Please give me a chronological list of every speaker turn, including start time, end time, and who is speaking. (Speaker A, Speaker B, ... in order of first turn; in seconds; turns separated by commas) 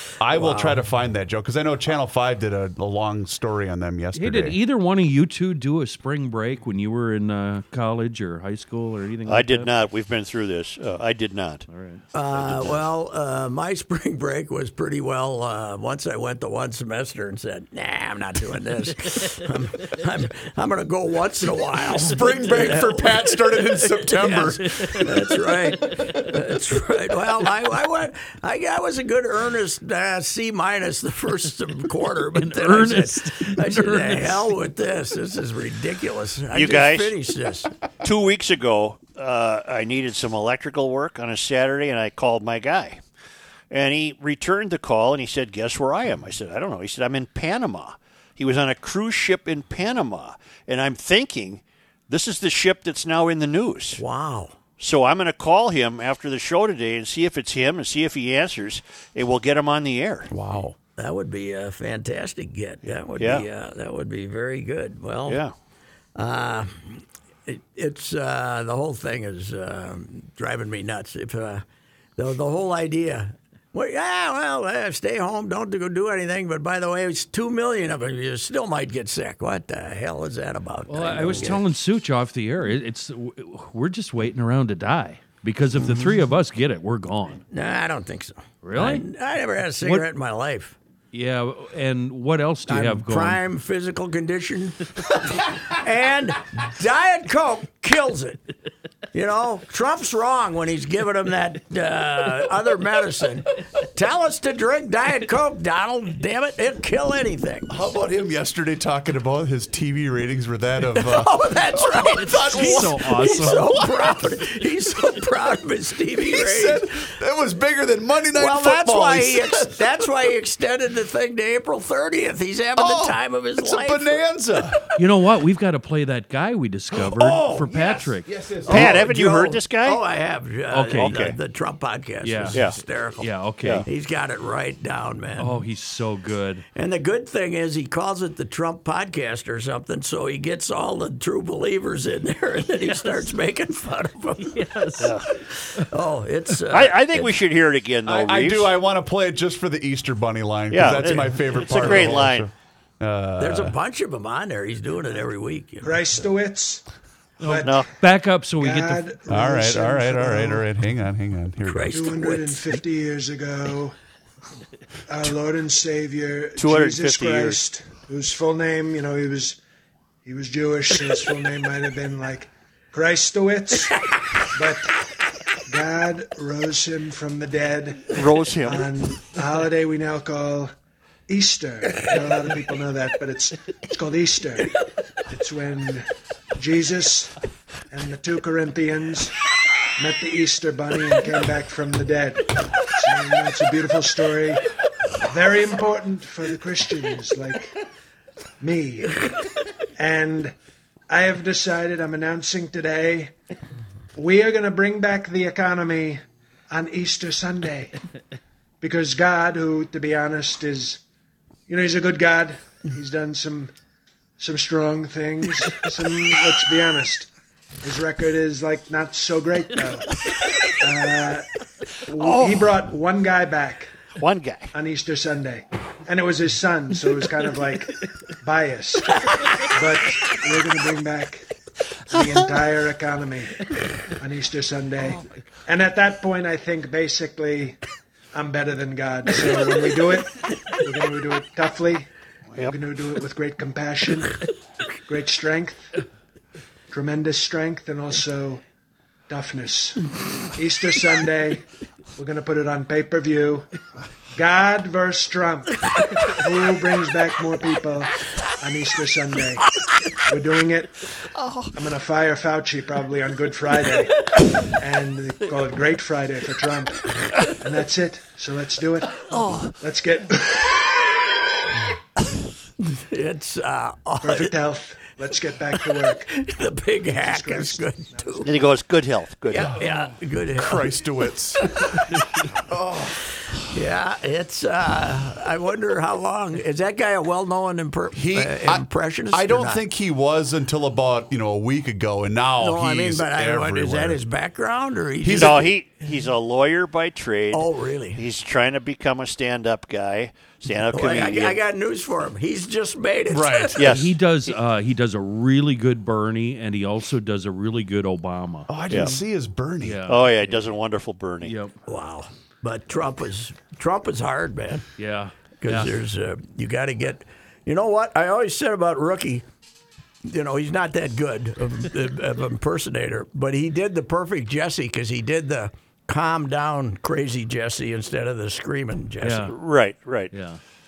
Speaker A: 0.2-4.6, Speaker B: 0.3-0.8, Speaker C: 4.2-9.7, Speaker D: 9.3-11.6, Speaker C: 11.7-12.0, Speaker B: 12.1-37.7, Speaker D: 12.3-12.8, Speaker A: 21.9-25.0, Speaker C: 32.3-34.5, Speaker D: 36.5-37.1, Speaker D: 38.0-43.0, Speaker D: 43.7-54.0, Speaker B: 54.0-54.5, Speaker D: 54.8-60.3, Speaker B: 60.3-65.4, Speaker D: 63.2-63.5, Speaker D: 65.3-65.5, Speaker B: 66.2-71.6, Speaker B: 72.2-81.6, Speaker C: 80.9-87.4, Speaker B: 85.8-86.3, Speaker B: 87.5-90.8, Speaker C: 88.6-89.0, Speaker C: 91.1-93.4, Speaker B: 92.7-98.4, Speaker B: 99.1-107.7, Speaker A: 107.7-113.8, Speaker B: 110.9-117.0, Speaker C: 112.1-113.7, Speaker A: 116.2-119.9, Speaker B: 118.3-124.2, Speaker A: 122.8-124.8, Speaker C: 124.9-128.9, Speaker A: 126.9-129.5, Speaker D: 128.7-130.0, Speaker B: 128.7-133.3, Speaker C: 130.7-131.1, Speaker D: 130.9-131.4, Speaker C: 132.2-133.8, Speaker D: 132.5-132.8, Speaker B: 133.8-135.6, Speaker C: 135.4-136.7, Speaker B: 136.8-147.3, Speaker C: 144.5-145.1, Speaker D: 145.0-145.3, Speaker D: 146.7-148.8, Speaker A: 148.1-153.8, Speaker D: 150.7-152.5, Speaker B: 153.4-155.9, Speaker E: 155.8-156.8, Speaker C: 157.4-159.1, Speaker E: 157.4-157.9, Speaker D: 157.6-157.9, Speaker E: 158.6-160.6, Speaker A: 159.3-162.0, Speaker B: 161.6-162.8, Speaker E: 161.9-163.9, Speaker E: 165.1-169.6, Speaker D: 166.6-167.6, Speaker E: 170.2-175.0, Speaker E: 175.7-180.7, Speaker D: 178.1-178.9, Speaker E: 181.3-187.3, Speaker E: 187.9-189.4, Speaker E: 190.0-194.7, Speaker E: 195.2-197.7, Speaker E: 198.6-199.2, Speaker E: 200.0-200.5, Speaker E: 201.1-203.3, Speaker E: 204.2-207.9, Speaker E: 208.8-211.0, Speaker E: 211.7-213.7, Speaker E: 214.4-217.3, Speaker E: 217.8-221.5, Speaker E: 222.1-223.9, Speaker D: 222.2-222.8, Speaker D: 224.2-224.7, Speaker E: 224.7-231.4, Speaker E: 232.1-237.8, Speaker E: 238.3-244.4, Speaker E: 245.1-245.9, Speaker E: 246.9-248.6, Speaker E: 249.3-251.7, Speaker E: 252.2-253.7, Speaker E: 254.3-259.6, Speaker E: 260.2-261.1, Speaker E: 261.7-271.1, Speaker B: 272.8-274.5, Speaker E: 274.2-276.3, Speaker B: 276.3-278.5, Speaker E: 277.1-278.7, Speaker D: 278.4-279.8, Speaker B: 279.5-281.0, Speaker A: 280.6-281.9, Speaker A: 282.7-283.2, Speaker B: 283.7-289.9, Speaker A: 288.2-294.2, Speaker B: 292.6-295.8, Speaker A: 295.2-295.7, Speaker D: 295.3-301.6, Speaker B: 297.5-298.2, Speaker B: 300.9-303.9, Speaker A: 303.3-303.9, Speaker D: 303.8-304.1, Speaker C: 303.8-309.1, Speaker A: 308.7-310.0, Speaker D: 308.9-309.1, Speaker C: 309.8-310.6, Speaker D: 310.1-311.6, Speaker C: 311.4-311.8, Speaker B: 311.9-314.9, Speaker C: 315.0-315.9, Speaker B: 315.6-319.4, Speaker B: 320.2-329.5, Speaker C: 329.2-329.6, Speaker D: 329.5-330.3, Speaker C: 330.3-330.6